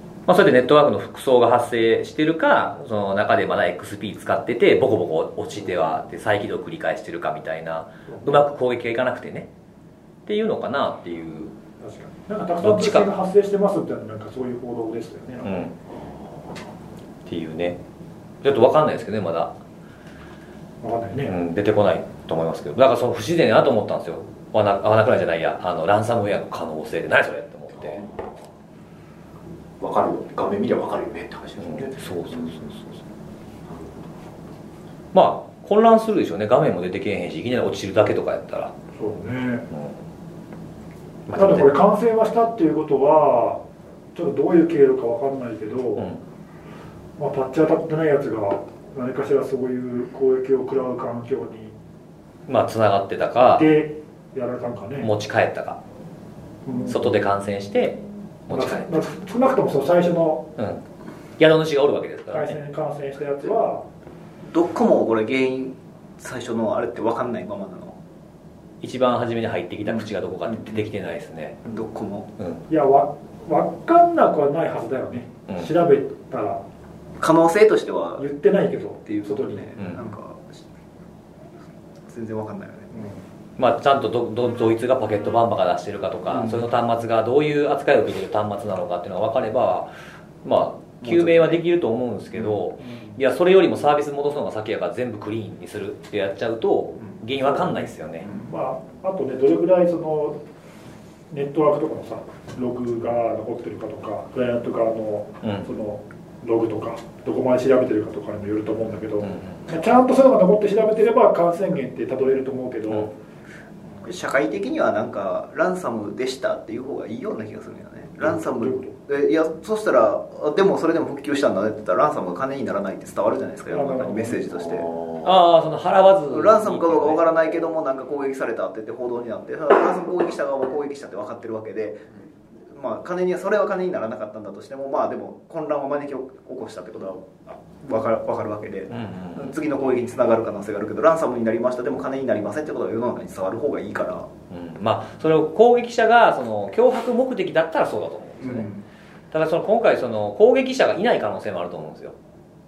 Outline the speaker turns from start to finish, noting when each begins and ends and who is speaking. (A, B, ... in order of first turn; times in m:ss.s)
0:00.3-0:09.5 A
0:08.1-0:08.4 B
0:10.3-0:11.6 A
0:11.8-0:15.7 B
0:12.6-0:13.1 A
0:15.4-0:15.7 A
0:17.3-0:17.8 A
0:18.4-0:19.6 A
0:20.8-0:21.4 B
0:21.2-0:28.0 A
0:27.9-0:28.2 C
0:29.8-0:32.4 C
0:31.6-0:33.0 A
0:35.1-0:38.7 A
0:38.9-0:39.7 B
0:39.7-0:40.0 A
0:41.3-0:41.7 A
0:41.3-0:43.6 B
0:44.1-0:46.1 B
0:47.2-0:51.7 B
0:52.5-0:53.7 A
0:53.4-0:55.1 B
0:55.0-0:55.8 A
0:56.6-0:57.1 B
0:56.9-0:59.0 A
0:58.5-1:00.4 B
1:00.6-1:00.8 A
1:01.4-1:02.6 A
1:02.3-1:03.8 B
1:04.5-1:08.0 D
1:08.8-1:11.6 A
1:11.6-1:12.3 D
1:12.7-1:16.6 B
1:17.2-1:18.3 D
1:18.2-1:19.8 B
1:19.1-1:20.6 D
1:22.1-1:22.9 D
1:22.9-1:23.2 B
1:23.6-1:38.3 A
1:31.0-1:31.6 D
1:32.8-1:33.2 B
1:38.3-1:40.4 B
1:41.3-1:53.1 B
1:45.4-1:45.7 A
1:49.2-1:49.6 A
1:54.0-2:04.9 D
1:58.2-1:58.9 B
2:03.7-2:04.4 B
2:04.7-2:05.2 C
2:05.2-2:07.2 A
2:06.3-2:12.0 D
2:12.7-2:24.3 D
2:18.9-2:19.6 A
2:24.5-2:28.7 A
2:29.3-2:32.1 A